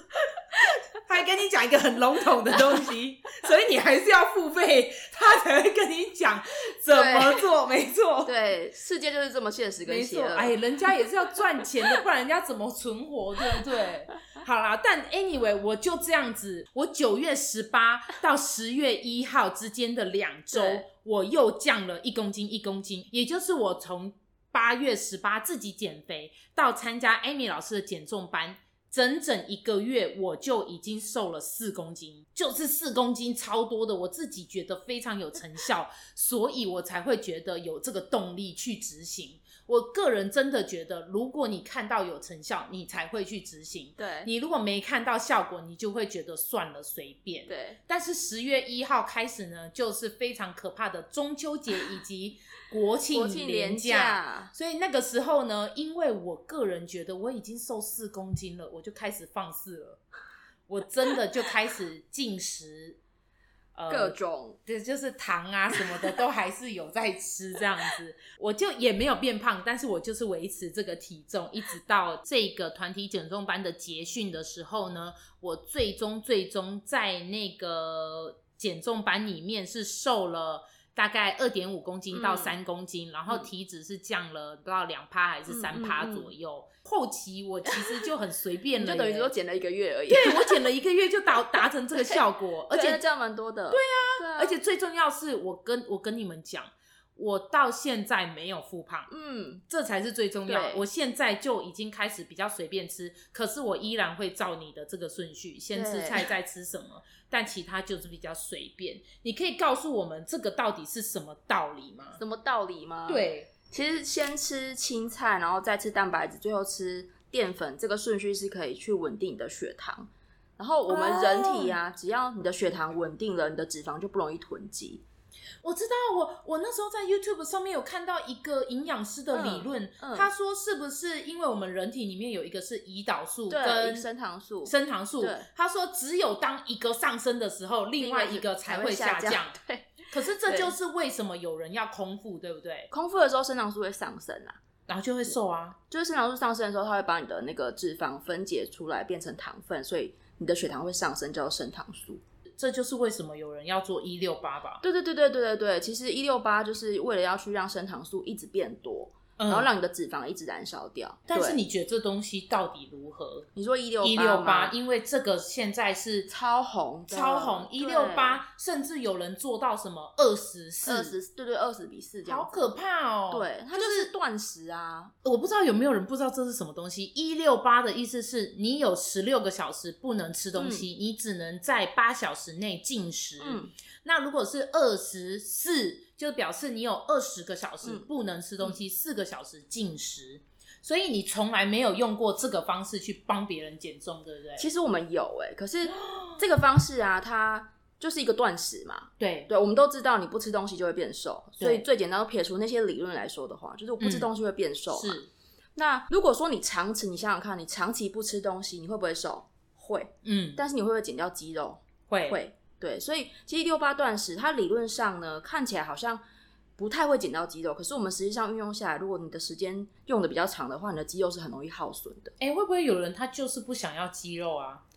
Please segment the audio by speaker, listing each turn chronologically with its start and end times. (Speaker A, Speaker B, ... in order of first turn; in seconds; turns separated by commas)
Speaker A: 0.2-8.3, Speaker B: 6.9-7.4, Speaker B: 8.2-10.6, Speaker A: 9.8-60.0, Speaker B: 20.5-20.8, Speaker B: 44.0-44.3, Speaker B: 47.5-47.8, Speaker B: 53.1-54.5, Speaker A: 60.7-63.0, Speaker A: 63.8-89.3, Speaker B: 63.9-64.6, Speaker B: 82.1-82.5, Speaker B: 85.5-86.3, Speaker B: 87.7-88.1, Speaker B: 88.8-90.6, Speaker A: 90.1-93.0, Speaker B: 91.5-94.6, Speaker A: 93.7-99.1, Speaker B: 99.1-99.6, Speaker A: 99.7-112.2, Speaker B: 100.5-100.8, Speaker B: 105.7-106.3, Speaker B: 112.2-125.0, Speaker A: 113.1-113.5, Speaker A: 120.9-121.8, Speaker A: 125.6-134.1, Speaker B: 129.3-130.3, Speaker B: 133.5-135.5, Speaker A: 134.7-139.6, Speaker B: 138.0-140.8, Speaker A: 140.1-142.9, Speaker B: 142.9-144.6, Speaker A: 144.9-145.8, Speaker B: 145.9-152.2, Speaker A: 152.6-154.8, Speaker B: 154.8-161.6, Speaker A: 159.4-159.7, Speaker A: 161.3-163.5, Speaker B: 163.6-164.7, Speaker A: 164.0-166.3, Speaker B: 166.3-168.4, Speaker A: 167.1-171.2, Speaker B: 170.8-172.7, Speaker A: 172.3-174.1, Speaker B: 173.3-175.1, Speaker A: 175.2-194.7, Speaker B: 180.6-180.9, Speaker B: 183.4-183.7, Speaker B: 194.6-205.2, Speaker A: 195.9-196.4, Speaker A: 199.2-199.5, Speaker A: 201.6-201.8, Speaker A: 204.0-204.3, Speaker A: 204.9-205.3, Speaker B: 205.8-216.2, Speaker A: 210.2-210.6, Speaker A: 212.1-212.4, Speaker B: 216.8-222.3, Speaker A: 222.4-224.8